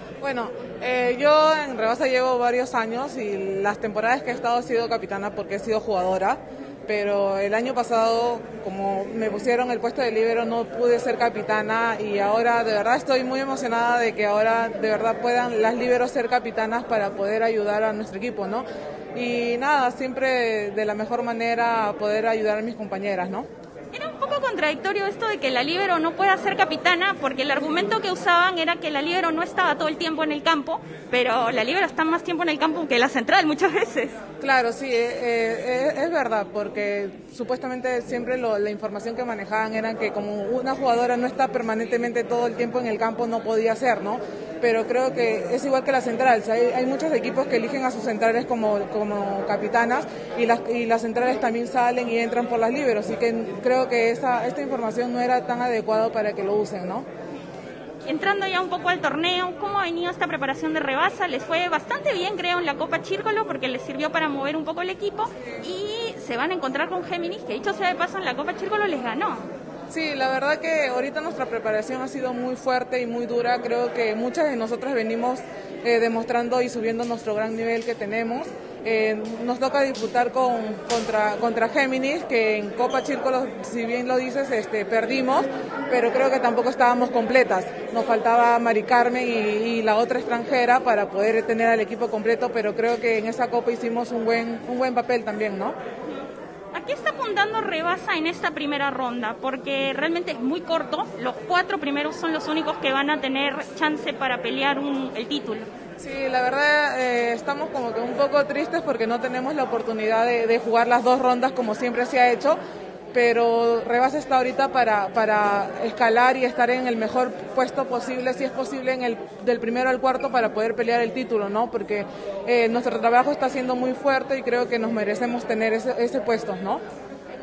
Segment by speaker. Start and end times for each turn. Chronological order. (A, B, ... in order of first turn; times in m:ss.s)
0:00.2-0:23.5 A
0:23.9-0:34.2 B
0:34.4-0:57.1 A
0:58.1-1:09.5 B
1:09.9-1:35.8 A
1:36.1-1:45.7 B
1:46.0-1:52.6 A
1:53.1-2:06.8 A